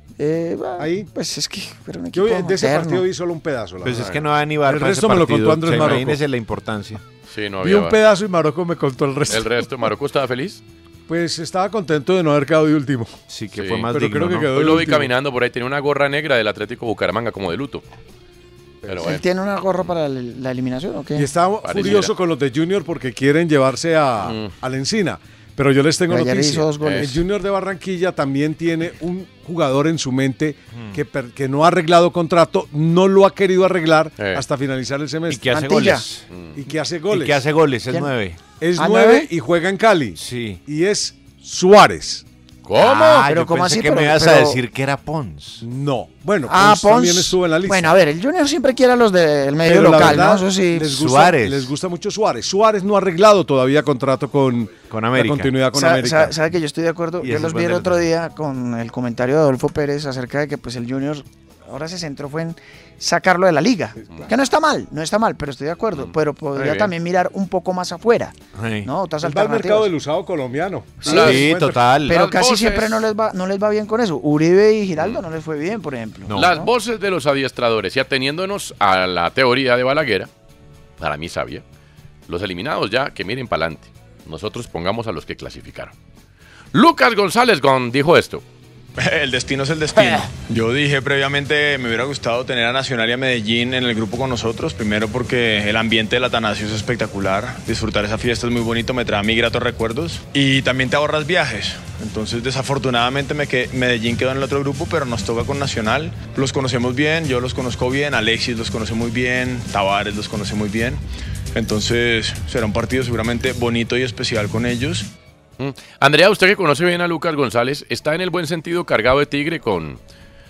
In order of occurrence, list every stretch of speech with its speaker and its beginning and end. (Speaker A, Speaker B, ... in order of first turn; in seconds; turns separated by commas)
Speaker A: 0.2-3.0, Speaker B: 0.8-1.1, Speaker B: 2.1-4.1, Speaker C: 3.8-7.0, Speaker D: 4.0-4.2, Speaker B: 4.6-6.2, Speaker D: 7.3-8.0, Speaker B: 7.6-9.6, Speaker D: 9.3-10.6, Speaker B: 11.1-13.2, Speaker C: 13.3-14.6, Speaker D: 13.6-13.9, Speaker B: 13.9-15.1, Speaker D: 14.5-17.8, Speaker B: 18.9-19.1, Speaker D: 18.9-19.2, Speaker A: 19.0-21.3, Speaker B: 21.1-35.5, Speaker D: 21.6-22.1, Speaker D: 24.2-24.5, Speaker A: 26.1-27.1, Speaker D: 26.8-27.1, Speaker D: 34.2-34.4, Speaker C: 35.3-36.2, Speaker A: 35.5-36.1, Speaker D: 36.3-36.6, Speaker B: 36.6-37.4, Speaker C: 37.1-38.4, Speaker B: 38.6-42.2, Speaker A: 38.8-39.3, Speaker C: 40.2-40.6, Speaker D: 42.6-43.3, Speaker C: 42.8-45.6, Speaker A: 43.2-44.6, Speaker B: 45.6-48.0, Speaker A: 46.5-51.0, Speaker B: 49.6-56.3, Speaker C: 50.9-51.7, Speaker C: 54.9-55.6, Speaker A: 55.8-69.9, Speaker C: 57.2-58.1, Speaker D: 66.0-66.9, Speaker C: 68.5-68.9, Speaker B: 69.2-71.9, Speaker A: 71.0-71.4, Speaker D: 71.0-71.4, Speaker C: 71.1-72.2, Speaker A: 72.1-76.7, Speaker D: 72.1-73.1, Speaker D: 75.0-75.2, Speaker D: 76.3-80.3, Speaker D: 81.0-81.6, Speaker D: 82.3-85.9, Speaker D: 86.7-88.4, Speaker E: 89.0-115.1, Speaker A: 90.0-90.2, Speaker D: 115.6-120.0